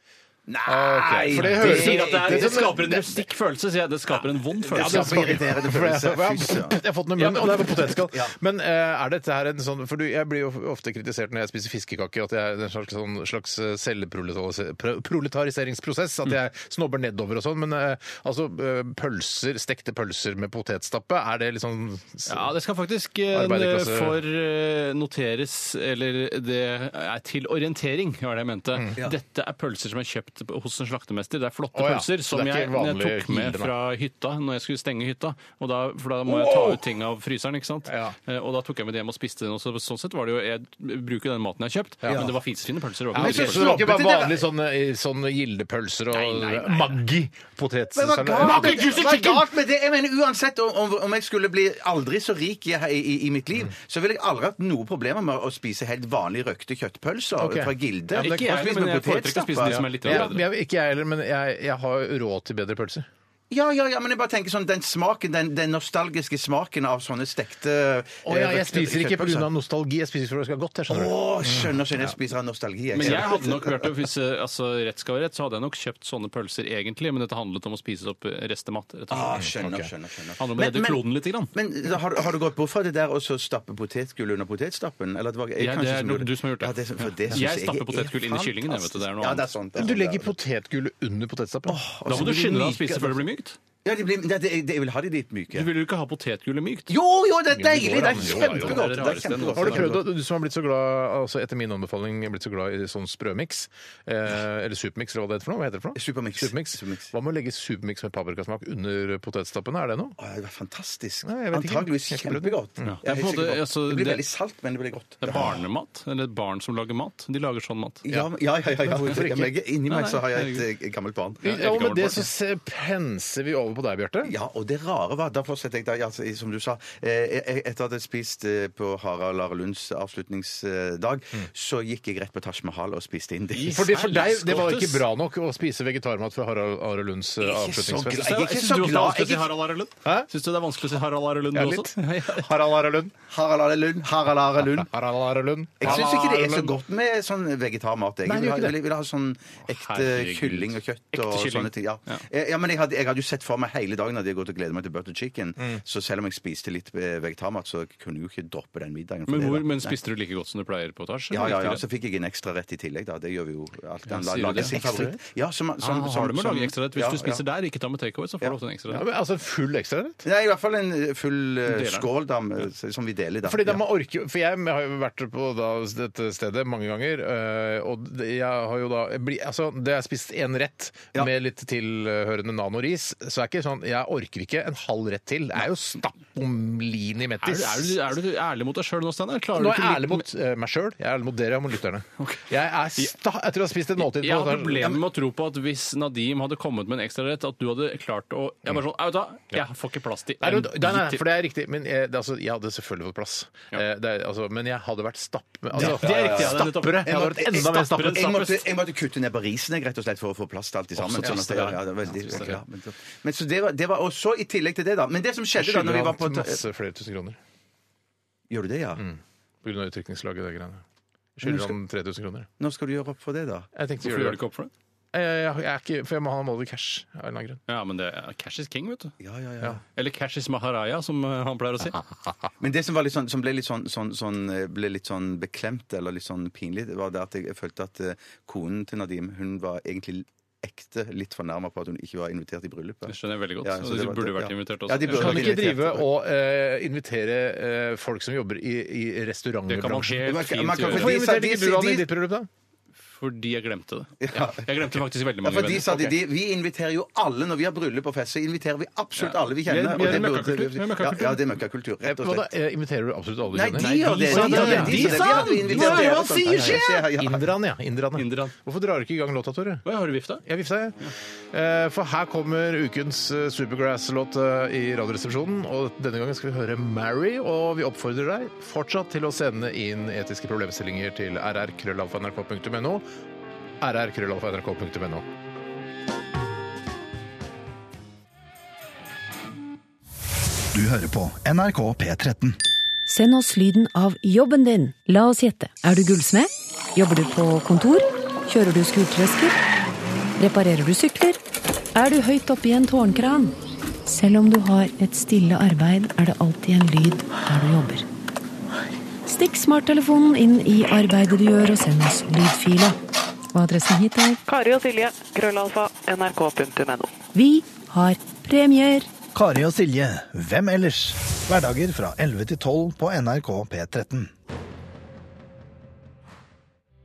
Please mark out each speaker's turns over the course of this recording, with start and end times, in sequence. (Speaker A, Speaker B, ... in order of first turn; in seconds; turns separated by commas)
Speaker A: 0.5-3.0, Speaker B: 0.7-3.0, Speaker C: 1.3-5.4, Speaker A: 4.7-6.8, Speaker B: 4.7-22.5, Speaker C: 7.2-7.7, Speaker C: 22.3-43.7, Speaker B: 23.3-24.2, Speaker B: 31.7-33.7, Speaker B: 36.3-36.8, Speaker B: 37.9-38.1, Speaker B: 42.0-42.3, Speaker B: 43.1-49.5, Speaker A: 43.1-44.5, Speaker C: 46.1-46.9, Speaker A: 47.9-60.3, Speaker C: 48.4-48.7, Speaker B: 57.4-58.5, Speaker C: 58.1-60.4, Speaker B: 59.6-63.1, Speaker A: 63.5-69.5, Speaker B: 68.2-71.8, Speaker A: 70.9-73.9, Speaker C: 72.9-79.4, Speaker A: 79.1-81.0, Speaker B: 79.4-79.9, Speaker C: 80.4-81.5, Speaker A: 81.5-90.3, Speaker C: 85.6-89.5, Speaker B: 89.7-92.3, Speaker A: 91.7-93.2, Speaker C: 92.0-93.6, Speaker A: 93.8-95.7, Speaker C: 95.5-96.9, Speaker A: 96.9-100.0, Speaker B: 97.5-110.2, Speaker C: 97.8-100.0, Speaker A: 106.0-107.1, Speaker A: 110.2-115.6, Speaker B: 111.2-112.9, Speaker C: 112.8-114.2, Speaker C: 115.2-118.2, Speaker A: 118.0-121.4, Speaker B: 118.9-119.5, Speaker C: 119.9-120.6, Speaker C: 121.4-122.2, Speaker B: 121.4-124.3, Speaker A: 124.2-133.8, Speaker C: 133.5-135.0, Speaker B: 133.6-138.4, Speaker A: 137.4-139.5, Speaker C: 138.2-142.5, Speaker B: 141.5-143.1, Speaker A: 143.3-144.9, Speaker B: 144.6-146.8, Speaker A: 145.8-160.0, Speaker B: 148.2-148.8, Speaker C: 149.7-152.2, Speaker C: 159.3-161.8, Speaker A: 161.3-167.4, Speaker C: 164.1-165.1, Speaker B: 164.6-165.2, Speaker C: 165.8-169.0, Speaker B: 168.9-170.2, Speaker A: 170.2-173.8, Speaker C: 171.7-172.1, Speaker B: 173.4-188.0, Speaker C: 187.4-190.2, Speaker B: 189.5-194.9, Speaker C: 192.2-193.1, Speaker C: 194.0-201.2, Speaker B: 200.4-208.3, Speaker C: 205.7-208.6, Speaker A: 205.8-216.6, Speaker C: 211.0-212.5, Speaker B: 211.1-212.6, Speaker B: 215.6-217.4, Speaker A: 218.5-219.0, Speaker B: 219.0-220.8, Speaker B: 221.4-222.5, Speaker A: 221.4-221.8, Speaker A: 222.6-223.7, Speaker B: 223.7-224.4, Speaker C: 224.0-224.7, Speaker B: 225.1-227.6, Speaker C: 227.7-229.1, Speaker A: 229.2-229.8, Speaker C: 229.9-232.0, Speaker A: 232.6-246.1, Speaker C: 243.1-245.6, Speaker B: 245.1-252.5, Speaker C: 249.7-251.2, Speaker A: 250.2-252.1, Speaker C: 253.1-256.1, Speaker A: 254.2-254.7, Speaker A: 255.4-262.5, Speaker C: 259.2-261.4, Speaker B: 262.0-269.8, Speaker A: 263.5-267.4, Speaker C: 263.8-266.8, Speaker C: 268.1-268.5, Speaker C: 269.8-270.4, Speaker B: 270.4-271.0, Speaker B: 271.5-283.0, Speaker B: 283.8-285.2, Speaker D: 290.7-292.6, Speaker E: 293.1-299.6, Speaker E: 300.4-301.4, Speaker E: 301.9-303.5, Speaker E: 304.1-308.0, Speaker E: 309.3-313.0, Speaker E: 313.5-314.4, Speaker F: 314.5-317.1, Speaker E: 317.3-319.1, Speaker D: 319.3-324.3